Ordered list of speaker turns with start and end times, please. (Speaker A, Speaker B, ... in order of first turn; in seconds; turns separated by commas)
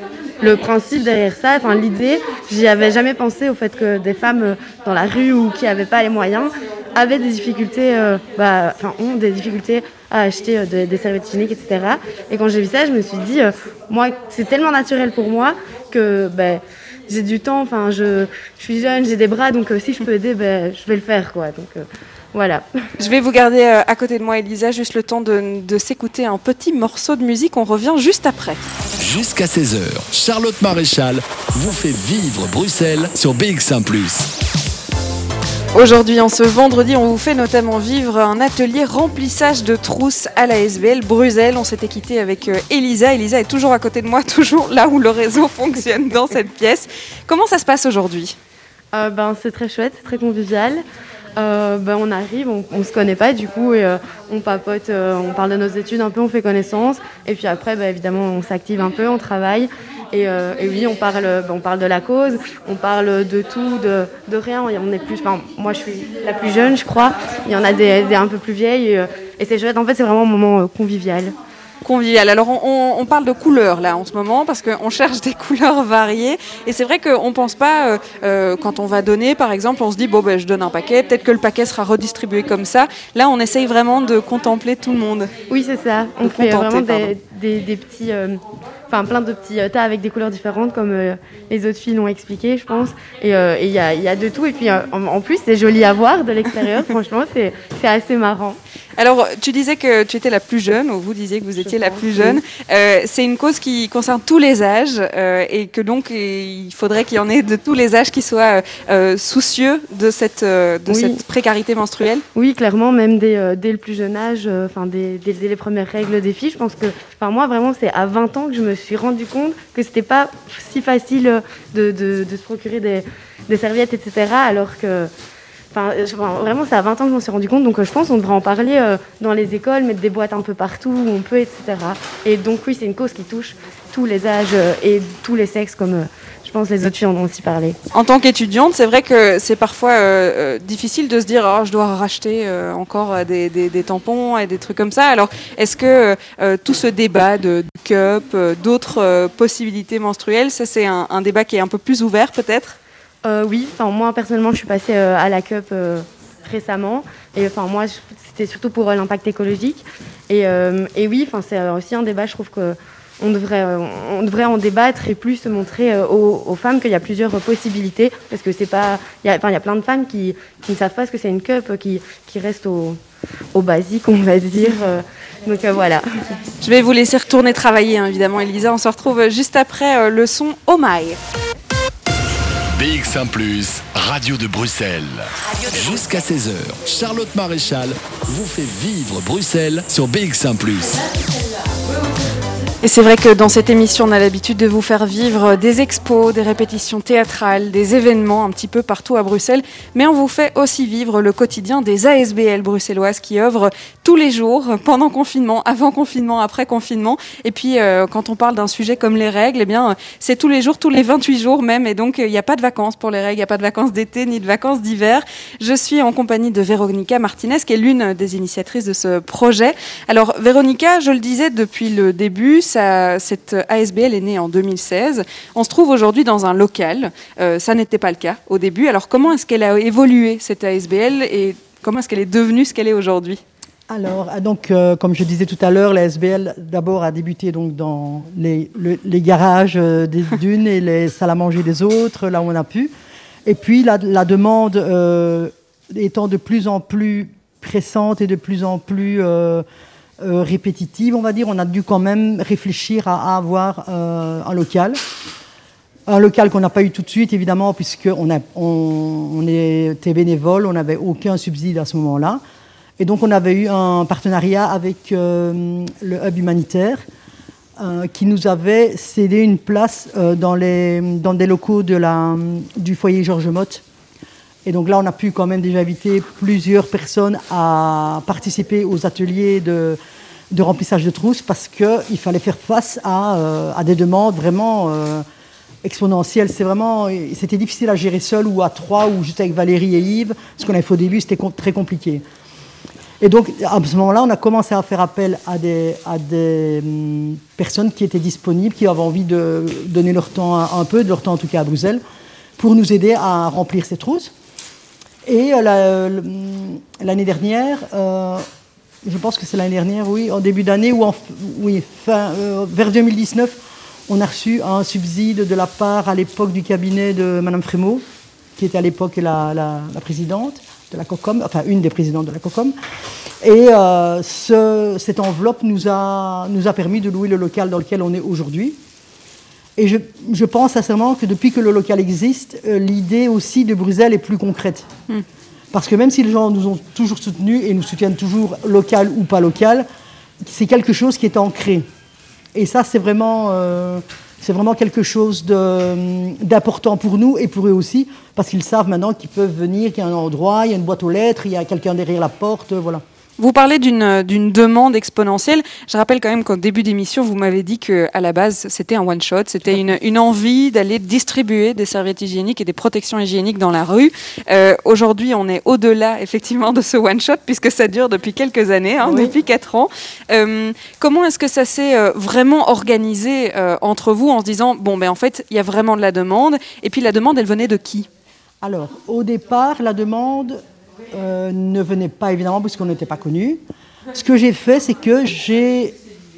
Speaker A: 0.4-22.7, Speaker B: 23.0-28.6, Speaker C: 29.0-34.3, Speaker B: 35.7-48.4, Speaker A: 48.9-50.8, Speaker A: 51.4-71.3, Speaker B: 71.8-85.3, Speaker A: 85.5-98.6, Speaker B: 86.2-87.1, Speaker B: 99.0-112.2, Speaker A: 101.6-102.4, Speaker A: 110.9-111.2, Speaker A: 112.4-125.1, Speaker A: 125.7-137.8, Speaker B: 137.9-152.8, Speaker A: 153.2-173.0, Speaker A: 173.6-176.1, Speaker B: 176.6-181.2, Speaker C: 182.7-191.0, Speaker B: 192.8-233.4, Speaker D: 233.9-242.9, Speaker D: 243.4-249.6, Speaker D: 250.2-255.0, Speaker D: 256.1-262.4, Speaker D: 263.0-267.0, Speaker D: 267.8-273.8, Speaker D: 274.6-280.0, Speaker D: 280.5-285.2, Speaker D: 285.8-292.2, Speaker D: 293.2-302.0, Speaker D: 302.6-304.3, Speaker D: 305.3-308.4, Speaker D: 309.0-318.0, Speaker D: 318.6-322.7, Speaker D: 323.4-328.8, Speaker D: 329.8-334.9, Speaker D: 335.7-339.9, Speaker D: 340.4-341.9, Speaker D: 342.6-353.0, Speaker B: 353.4-378.1, Speaker D: 359.6-359.9, Speaker D: 369.0-369.4, Speaker D: 378.6-380.6, Speaker D: 381.1-383.6, Speaker D: 384.1-385.9